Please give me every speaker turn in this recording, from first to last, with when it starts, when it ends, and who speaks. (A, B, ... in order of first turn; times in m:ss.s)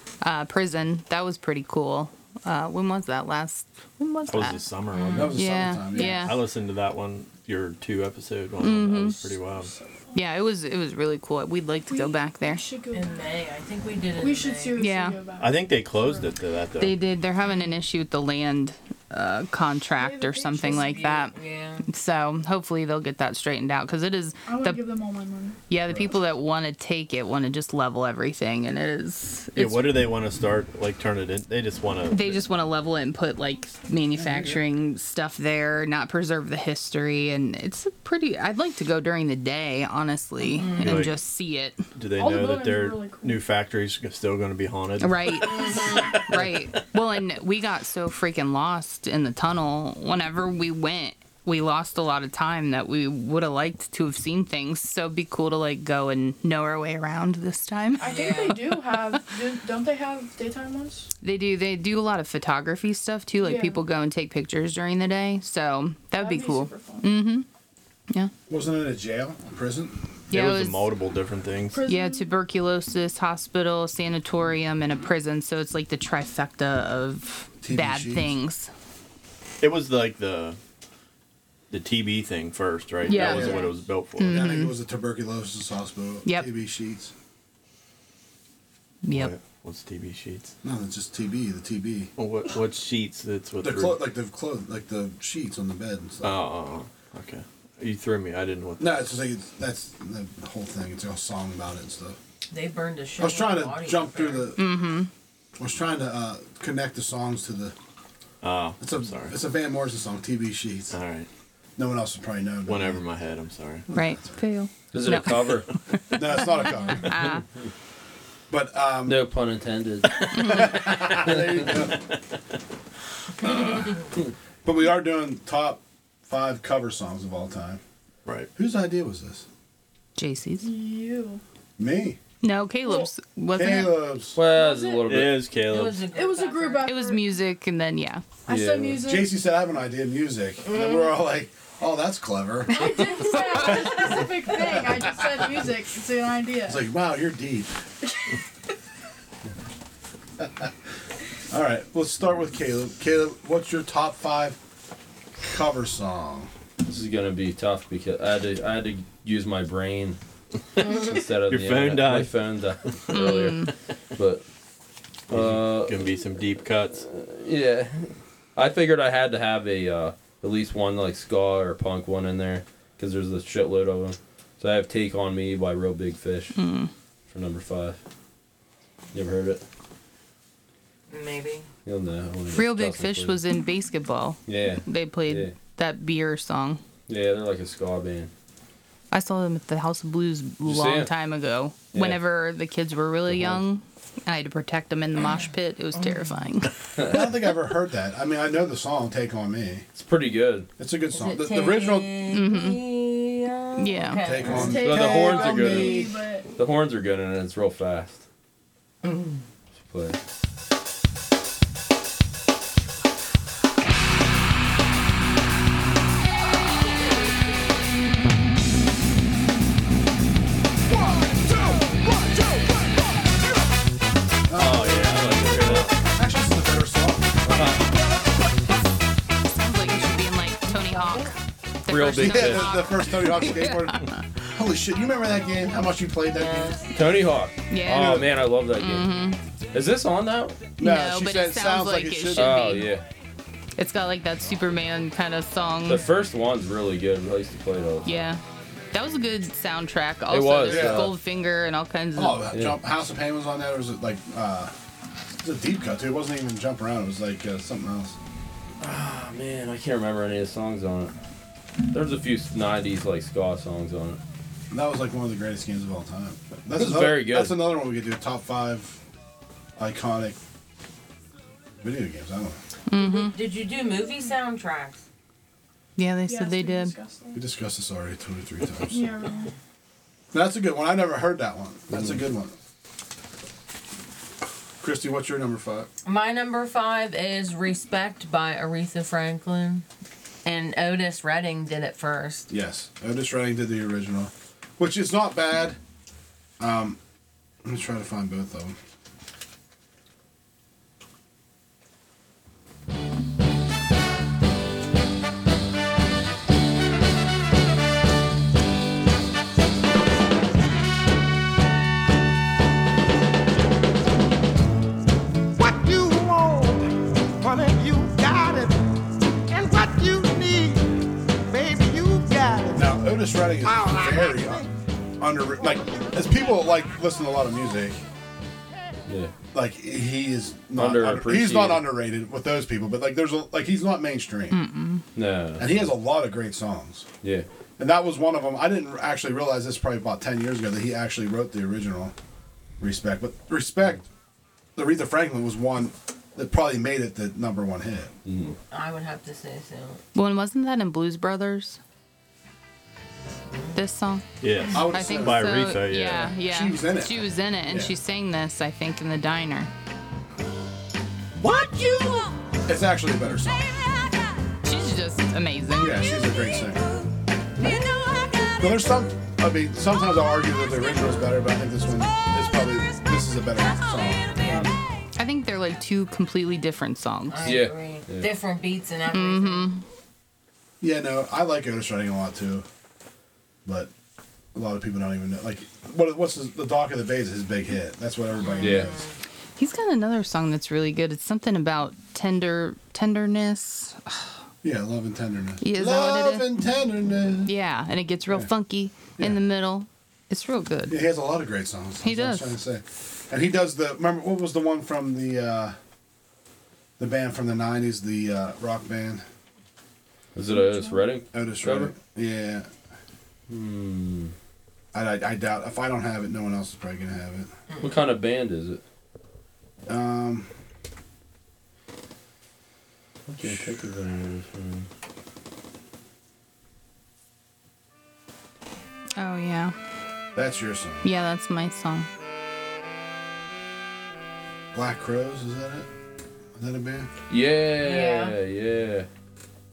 0:00.2-0:06.4 A
0:04.3-0:09.7 B
0:05.1-0:06.3 C
0:08.6-0:09.3 A
0:09.6-0:10.2 D
0:10.1-0:12.6 A
0:11.9-0:13.4 D
0:12.9-0:14.8 E
0:14.2-0:16.3 D
0:14.8-0:15.2 A
0:15.4-0:17.0 B
0:16.8-0:21.3 A
0:20.0-0:21.2 D
0:20.6-0:21.9 E
0:21.8-0:24.8 A
0:24.5-0:25.6 D
0:25.7-0:30.0 A
0:29.6-0:32.4 B
0:32.1-0:41.8 A
0:34.2-0:34.6 C
0:40.6-0:41.0 E
0:40.8-0:41.1 B
0:42.0-0:46.7 B
0:42.2-0:43.5 D
0:45.0-0:59.0 A
0:45.7-0:46.0 E
0:58.0-1:01.1 D
0:58.0-0:58.6 E
1:01.2-1:07.5 A
1:03.4-1:03.8 D
1:06.1-1:07.1 D
1:08.5-1:10.0 C
1:10.3-1:10.9 A
1:10.3-1:11.8 B
1:11.7-1:12.3 D
1:11.9-1:18.7 A
1:17.6-1:18.4 C
1:19.6-1:20.6 B
1:21.7-1:24.4 B
1:23.0-1:23.6 A
1:23.2-1:23.7 C
1:23.2-1:23.7 D
1:24.2-1:24.8 A
1:24.2-1:27.1 C
1:29.0-1:29.3 A
1:29.1-1:30.5 B
1:30.6-1:32.1 C
1:32.2-1:34.0 B
1:33.6-1:36.4 C
1:36.2-1:39.0 B
1:38.8-1:42.2 C
1:42.5-1:44.5 E
1:43.2-1:44.7 C
1:44.6-1:45.1 A
1:45.6-1:47.8 C
1:48.4-1:49.4 B
1:48.8-1:51.0 C
1:50.9-1:51.3 B
1:51.8-1:53.0 C
1:52.7-1:53.9 B
1:53.9-1:57.4 A
1:54.9-1:55.7 F
1:56.1-1:57.2 C
1:58.5-1:59.3 C
1:59.0-2:01.7 F
2:00.3-2:02.1 C
2:03.5-2:03.8 C
2:04.6-2:07.8 C
2:08.6-2:09.5 C
2:10.2-2:10.7 A
2:10.6-2:11.4 D
2:11.8-2:12.2 C
2:12.4-2:14.1 A
2:13.5-2:14.4 C
2:14.3-2:15.5 F
2:14.5-2:15.3 D
2:15.1-2:16.1 B
2:15.6-2:17.0 E
2:16.1-2:17.3 D
2:16.8-2:18.2 A
2:18.5-2:19.4 D
2:18.5-2:19.0 F
2:19.0-2:25.3 C
2:20.7-2:21.1 E
2:22.7-2:26.8 D
2:26.7-2:27.8 C
2:30.4-2:30.7 C
2:31.5-2:34.6 C
2:35.5-2:36.5 C
2:36.8-2:40.2 F
2:40.8-2:42.4 B
2:40.8-2:44.4 F
2:43.1-2:43.7 B
2:43.1-2:43.7 A
2:45.3-2:47.0 B
2:45.3-2:46.1 F
2:47.1-2:56.6 F
2:56.6-2:56.9 A
2:57.3-2:58.0 F
2:59.1-2:59.6 F
3:01.1-3:01.7 E
3:01.8-3:03.4 F
3:02.6-3:06.8 A
3:04.5-3:05.5 F
3:07.1-3:08.3 F
3:09.1-3:16.8 A
3:10.6-3:11.1 F
3:11.9-3:12.2 F
3:13.3-3:13.6 F
3:17.0-3:17.3 F
3:17.0-3:19.9 C
3:20.0-3:20.7 F
3:20.8-3:22.1 C
3:21.1-3:24.8 E
3:22.3-3:22.8 A
3:23.8-3:24.2 A
3:24.2-3:26.2 C
3:24.4-3:26.5 D
3:24.6-3:28.2 F
3:29.8-3:30.2 F
3:41.1-3:42.0 G
3:44.5-3:47.8 C
3:44.5-3:45.9 B
3:47.5-3:47.8 F
3:49.6-3:54.2 A
3:51.9-3:52.8 F
3:52.1-3:56.8 C
3:56.3-3:56.8 E
3:56.9-3:59.1 F
3:57.7-3:59.4 A
3:57.9-3:58.3 C
3:59.7-4:00.7 F
4:00.8-4:02.9 C
4:00.8-4:02.9 A
4:02.4-4:03.0 F
4:03.8-4:06.0 A
4:05.8-4:08.2 F
4:08.0-4:08.4 A
4:08.9-4:12.4 A
4:10.3-4:11.2 F
4:10.7-4:11.1 C
4:12.2-4:14.7 C
4:12.5-4:12.8 F
4:15.4-4:18.2 C
4:18.8-4:21.1 F
4:21.9-4:24.2 F
4:24.7-4:29.0 C
4:26.7-4:27.6 F
4:29.8-4:30.4 C
4:31.8-4:32.6 C
4:32.9-4:33.3 A
4:32.9-4:35.0 E
4:36.0-4:36.9 A
4:36.3-4:37.4 D
4:37.3-4:39.2 C
4:38.9-4:39.5 D
4:40.3-4:42.6 C
4:44.8-4:45.9 C
4:46.0-4:49.8 E
4:50.4-4:52.5 E
4:52.5-4:55.8 C
4:56.6-4:57.0 C
4:57.6-4:58.8 C
5:15.6-5:16.9 G
5:17.4-5:18.8 G
5:19.5-5:20.9 G
5:21.5-5:24.7 G
5:22.7-5:24.7 C
5:25.2-5:28.0 C
5:25.6-5:26.8 G
5:29.1-5:29.3 F
5:29.5-5:34.6 C
5:30.8-5:31.9 F
5:34.5-5:35.1 A
5:35.2-5:35.8 F
5:35.6-5:37.1 C
5:37.8-5:42.1 C
5:42.8-5:44.0 C
5:44.8-5:48.1 C
5:48.2-5:48.6 F
5:48.7-5:50.0 E
5:50.2-5:51.8 A
5:53.5-5:53.8 E
5:53.8-5:54.2 A
5:54.4-5:56.4 B
5:54.7-5:55.7 C
5:54.8-5:59.7 A
5:56.4-5:57.9 C
6:01.8-6:02.3 G
6:02.7-6:03.8 C
6:04.6-6:06.0 A
6:05.8-6:06.8 C
6:08.6-6:14.7 C
6:15.2-6:17.6 A
6:17.3-6:19.7 E
6:17.4-6:18.3 F
6:19.1-6:19.8 A
6:20.8-6:22.7 C
6:23.6-6:23.9 C
6:24.5-6:29.0 C
6:28.4-6:29.1 E
6:28.6-6:29.0 F
6:29.6-6:34.4 A
6:34.6-6:37.5 C
6:35.6-6:36.5 A
6:37.5-6:41.0 A
6:40.9-6:45.8 C
6:42.0-6:42.6 A
6:47.0-6:49.2 C
6:50.4-6:51.9 F
6:51.3-6:52.7 C
6:53.5-6:54.3 F
6:54.9-6:57.5 C
6:57.8-6:58.8 F
6:59.9-7:00.5 C
7:03.3-7:04.9 F
7:03.4-7:03.7 C
7:09.2-7:09.8 A
7:10.4-7:11.1 C
7:11.0-7:12.1 A
7:14.7-7:15.9 C
7:16.6-7:17.1 C
7:17.3-7:19.1 F
7:17.8-7:18.4 E